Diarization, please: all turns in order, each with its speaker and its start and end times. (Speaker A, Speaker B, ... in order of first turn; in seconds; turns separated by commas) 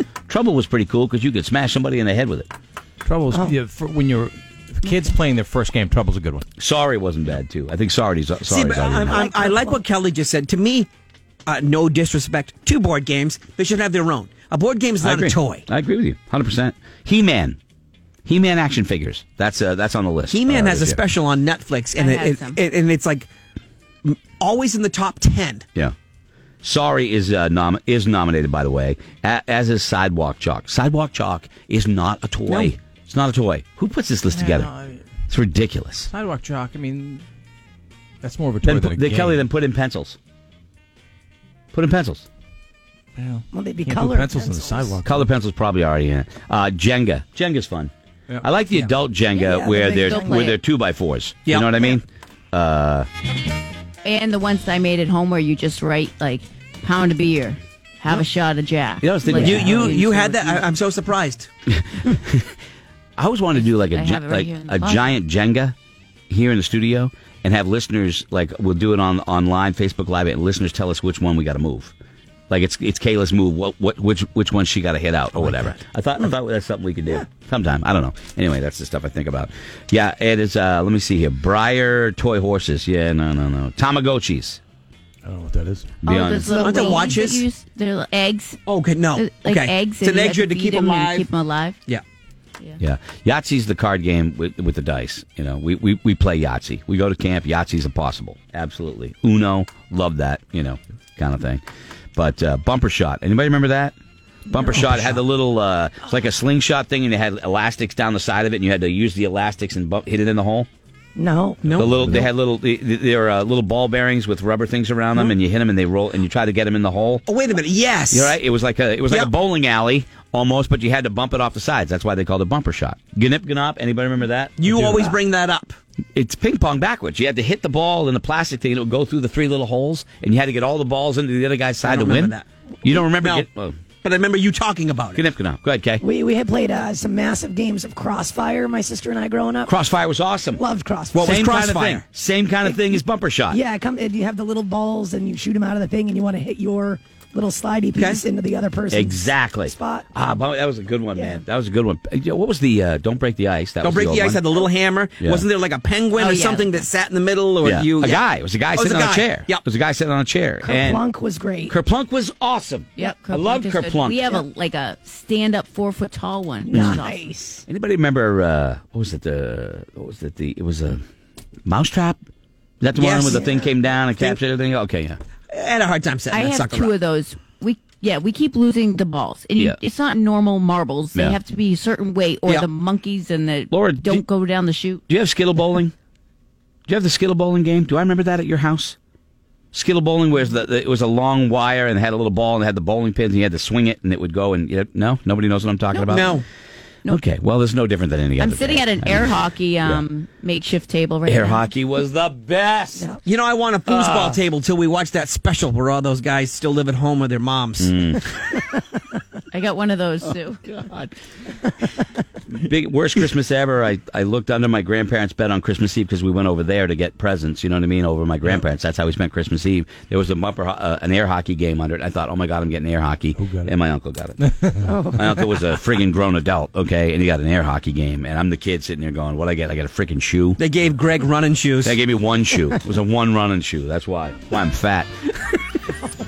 Speaker A: 0.3-2.5, Speaker B: 3.0-6.5, Speaker A: 6.6-9.2, Speaker C: 8.4-10.9, Speaker D: 9.0-9.8, Speaker C: 11.4-15.7, Speaker A: 15.0-17.6, Speaker A: 18.2-21.0, Speaker C: 20.3-23.3, Speaker E: 21.9-22.6, Speaker C: 24.0-25.6, Speaker A: 26.6-34.7, Speaker C: 32.5-32.7, Speaker B: 34.3-35.0, Speaker A: 35.3-36.1, Speaker B: 36.1-37.2, Speaker B: 38.2-39.4, Speaker A: 38.6-40.2, Speaker A: 41.7-42.2, Speaker B: 43.1-45.2, Speaker D: 43.5-45.0, Speaker A: 45.0-47.9, Speaker A: 48.4-53.1, Speaker D: 49.3-50.5, Speaker E: 50.0-50.6, Speaker C: 51.5-51.9, Speaker E: 54.0-60.6, Speaker A: 59.0-59.7, Speaker C: 59.3-61.5, Speaker A: 61.7-62.5, Speaker A: 63.2-65.7, Speaker E: 63.5-65.1, Speaker A: 66.3-71.9, Speaker A: 72.5-84.6, Speaker B: 75.3-75.8, Speaker B: 85.2-86.0, Speaker A: 86.0-87.0, Speaker E: 86.0-88.6, Speaker C: 86.5-87.5, Speaker C: 88.7-91.3, Speaker E: 89.1-91.8, Speaker A: 92.8-101.6, Speaker A: 102.2-103.9, Speaker A: 104.5-110.7, Speaker C: 104.8-105.1, Speaker D: 111.2-112.0, Speaker C: 111.6-112.2, Speaker A: 111.8-117.2, Speaker C: 117.2-118.4, Speaker A: 118.1-125.1, Speaker C: 124.6-125.8, Speaker A: 126.1-133.8, Speaker C: 131.8-133.4, Speaker C: 134.0-135.2, Speaker A: 135.1-136.0, Speaker D: 136.0-139.7, Speaker A: 139.7-140.6, Speaker D: 140.6-141.3, Speaker C: 141.1-142.0, Speaker A: 141.2-143.6, Speaker D: 143.5-150.1, Speaker C: 147.9-148.2, Speaker A: 148.9-154.6, Speaker D: 151.1-151.4, Speaker C: 153.8-158.2, Speaker A: 155.2-155.4, Speaker E: 156.1-156.8, Speaker A: 157.6-161.0, Speaker C: 158.7-159.6, Speaker D: 160.6-161.7, Speaker A: 161.7-164.3, Speaker E: 163.0-167.3, Speaker A: 166.7-167.0, Speaker D: 166.7-167.6, Speaker A: 167.7-171.0, Speaker A: 171.7-172.2, Speaker A: 172.8-175.2, Speaker C: 172.9-174.4, Speaker C: 175.5-176.9, Speaker E: 176.3-185.0, Speaker A: 183.7-184.2, Speaker A: 185.1-185.9, Speaker A: 186.9-189.0, Speaker A: 189.7-196.4, Speaker C: 196.1-196.4, Speaker A: 197.1-200.0, Speaker E: 198.4-201.7, Speaker A: 201.2-203.1, Speaker C: 203.2-208.1, Speaker A: 203.9-204.4, Speaker A: 207.8-208.2, Speaker E: 209.5-210.6, Speaker A: 210.6-211.1, Speaker A: 212.5-224.4, Speaker B: 223.4-223.7, Speaker B: 224.4-224.9, Speaker D: 224.8-225.2, Speaker A: 225.0-230.6, Speaker C: 230.6-232.0, Speaker A: 231.8-235.8